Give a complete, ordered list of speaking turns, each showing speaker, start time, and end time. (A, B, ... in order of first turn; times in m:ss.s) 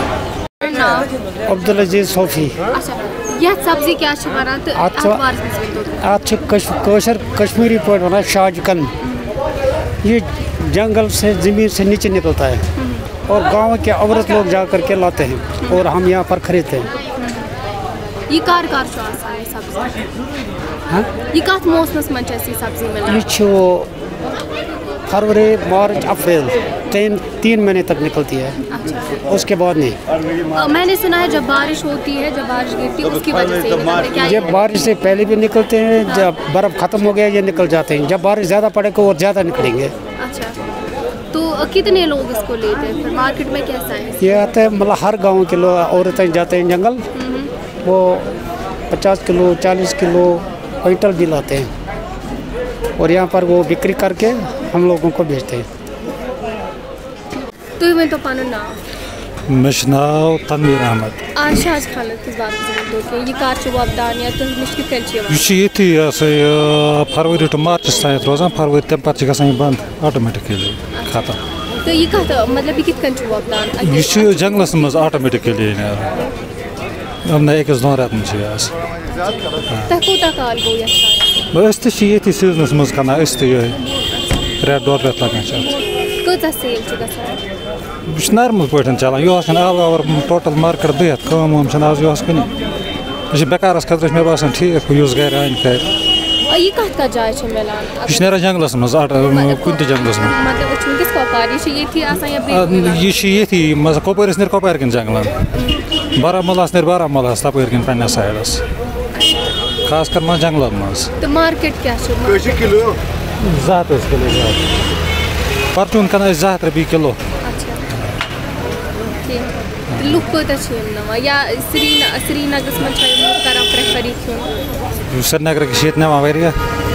0:00.6-0:01.1 A
0:01.5-0:02.6 B
0:02.7-0:06.2 A
0:04.8-0:05.2 B
0:06.0-0:08.9 B
0:09.0-0:09.4 A
0:10.0-0:12.6 B
0:12.8-0:13.1 A
0:13.3-0:16.9 B
0:17.2-0:17.5 A
0:18.3-0:20.1 A
0:21.3-0:23.2 A
0:23.1-0:23.9 B
0:25.1-0:28.6 B
0:28.7-0:29.2 A
0:29.2-0:30.0 B
0:30.5-0:34.6 A
0:34.2-0:39.9 B
0:40.2-0:40.6 A
0:41.3-0:44.4 A
0:44.2-0:47.0 B
0:47.1-0:47.5 A
0:47.8-0:48.3 B
0:48.9-0:51.7 B
0:53.0-0:55.7 B
0:57.8-0:58.8 A
0:59.5-1:01.2 C
1:01.4-1:05.5 A
1:05.3-1:11.4 C
1:10.9-1:15.1 A
1:13.8-1:16.2 C
1:17.2-1:18.7 C
1:19.9-1:21.4 A
1:21.5-1:23.8 C
1:24.6-1:25.8 C
1:26.2-1:27.4 A
1:28.1-1:32.5 C
1:33.3-1:35.9 C
1:36.5-1:38.4 A
1:38.1-1:40.4 C
1:39.3-1:43.1 A
1:42.5-1:45.5 C
1:45.5-1:45.8 A
1:46.2-1:48.6 C
1:49.8-1:51.1 C
1:51.2-1:53.0 A
1:53.4-1:54.7 C
1:55.7-1:57.2 C
1:57.4-1:57.8 A
1:59.2-2:04.5 A
1:59.9-2:00.3 C
2:05.1-2:06.6 C